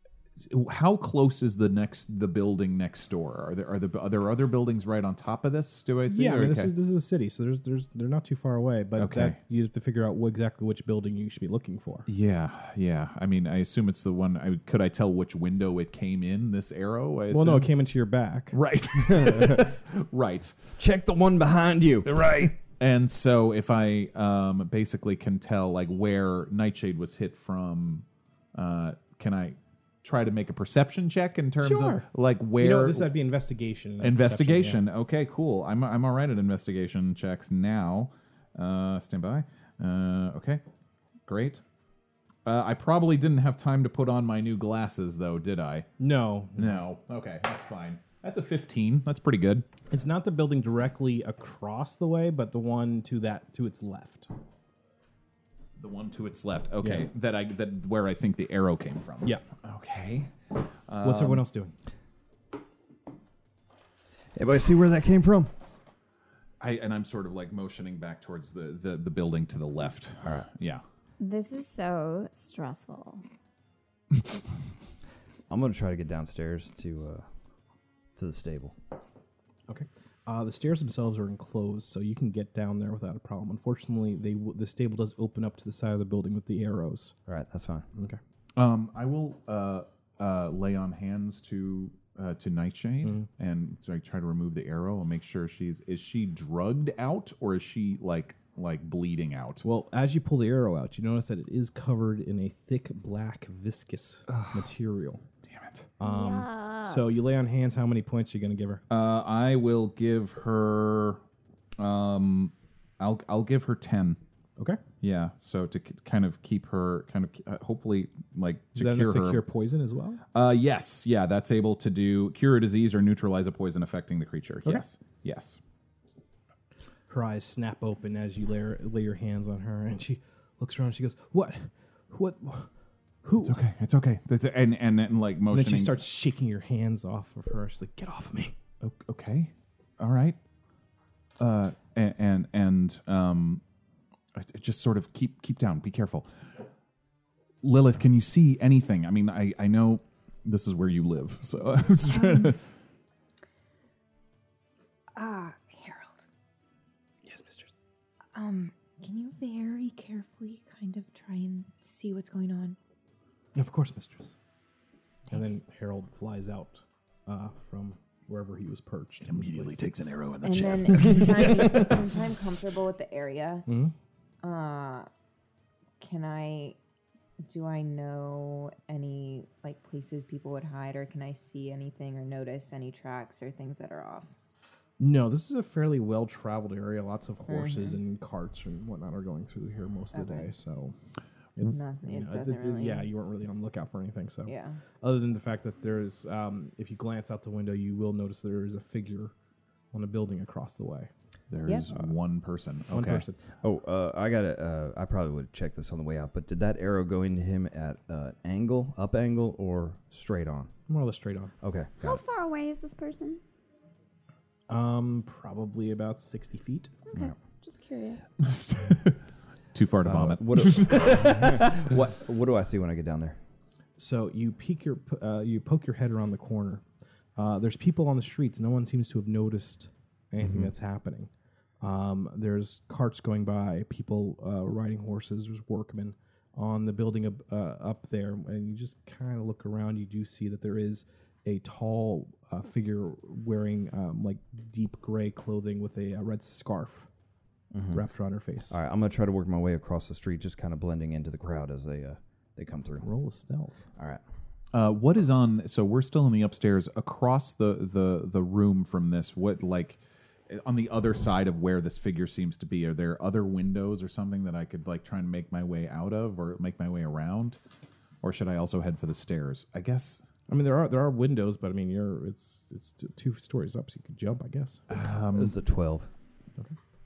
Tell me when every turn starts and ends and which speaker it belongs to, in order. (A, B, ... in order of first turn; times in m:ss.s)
0:00.4-0:06.7 A
0:06.1-0:12.1 B
0:09.0-0:09.4 A
0:12.1-0:17.7 A
0:17.3-0:18.6 B
0:18.5-0:20.5 A
0:19.0-0:19.7 C
0:20.8-0:22.2 C
0:22.0-0:33.1 A
0:31.6-0:32.1 B
0:32.6-0:34.8 B
0:34.0-0:40.6 A
0:41.3-0:41.6 A
0:42.4-0:45.8 A
0:46.0-0:46.8 B
0:46.6-0:49.6 A
0:49.9-0:54.3 B
0:55.8-1:00.3 A
0:56.8-0:57.1 B
1:00.9-1:01.4 A
1:01.0-1:01.7 B
1:04.3-1:05.5 C
1:06.6-1:10.8 A
1:11.2-1:13.2 D
1:15.5-1:17.2 C
1:18.2-1:18.8 C
1:19.7-1:27.1 B
1:27.3-1:27.9 C
1:28.6-1:39.6 A
1:39.6-1:45.2 B
1:44.3-1:44.6 A
1:45.4-1:45.9 A
1:46.0-1:48.8 B
1:46.0-1:47.0 D
1:48.9-1:51.2 A
1:51.8-1:54.2 A
1:55.0-1:59.4 A
1:58.7-2:00.2 B
2:00.3-2:05.6 A
2:07.1-2:12.7 B
2:13.2-2:13.6 B
2:13.4-2:16.0 A
2:15.5-2:18.5 B
2:18.8-2:20.4 A
2:21.4-2:23.6 A
2:24.3-2:26.3 A
2:27.6-2:32.6 A
2:32.1-2:32.5 E
2:35.2-2:36.3 E
2:37.2-2:37.7 B
2:38.3-2:42.8 E
2:43.5-2:44.3 B
2:45.3-2:49.8 B
2:49.2-2:51.6 A
2:50.4-2:53.6 E
2:51.1-2:51.8 B
2:53.7-2:53.9 B
2:54.4-2:55.1 E
2:56.0-2:56.8 E
2:57.4-3:04.2 E
3:05.0-3:10.9 B
3:07.4-3:08.0 E
3:10.1-3:10.5 E
3:11.6-3:19.3 B
3:11.6-3:13.1 E
3:14.4-3:14.8 E
3:19.9-3:21.1 B
3:21.5-3:23.2 A
3:22.9-3:23.4 B
3:23.6-3:30.7 C
3:30.9-3:31.5 B
3:31.6-3:32.2 C
3:32.0-3:33.4 D
3:34.7-3:37.0 B
3:37.1-3:38.2 D
3:38.4-3:39.2 A
3:39.7-3:41.8 A
3:40.0-3:43.4 C
3:44.0-3:46.8 B
3:47.4-3:51.3 B
3:51.8-4:07.1 B
4:07.7-4:08.1 C
4:07.9-4:08.8 B
4:08.7-4:13.1 C
4:13.0-4:13.8 B
4:14.7-4:27.6 A
4:28.2-4:30.2 A
4:30.5-4:34.8 B
4:34.9-4:35.6 A
4:35.3-4:36.1 C